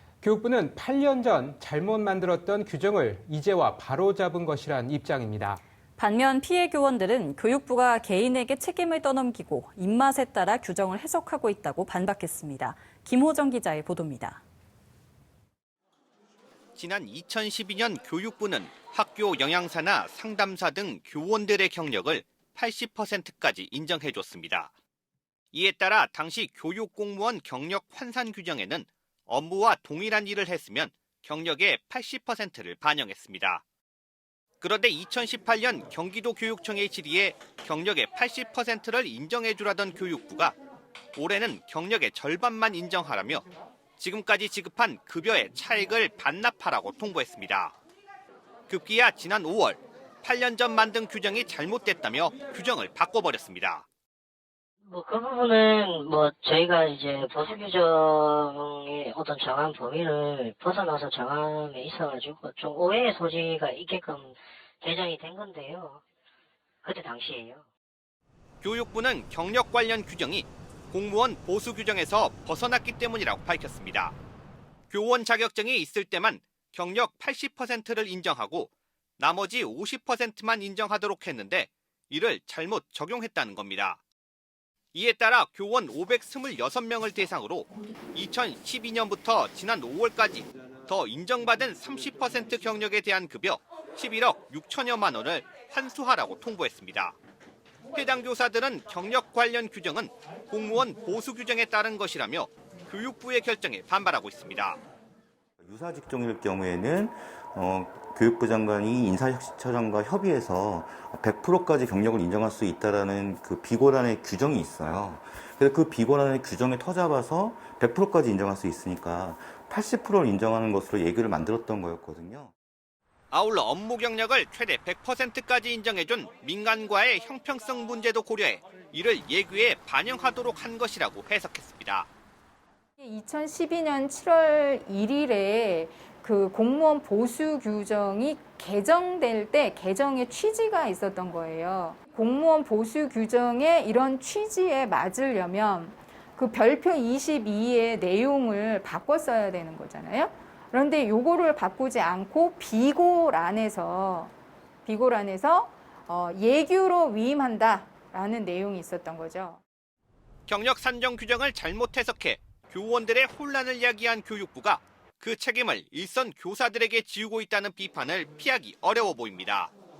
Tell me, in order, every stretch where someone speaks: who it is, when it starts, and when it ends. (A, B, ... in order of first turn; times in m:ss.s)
0:00.2-0:05.6 A
0:06.0-0:14.4 B
0:16.8-0:24.7 C
0:25.5-0:33.6 C
0:34.6-0:40.5 C
0:41.1-0:43.4 C
0:44.0-0:47.8 C
0:48.7-0:53.8 C
0:54.8-1:06.0 D
1:06.8-1:07.7 D
1:08.6-1:14.2 C
1:14.9-1:24.0 C
1:24.9-1:37.2 C
1:37.9-1:44.8 C
1:45.6-2:02.5 E
2:03.3-2:12.1 C
2:13.0-2:34.3 F
2:34.8-2:39.6 F
2:40.5-2:49.7 C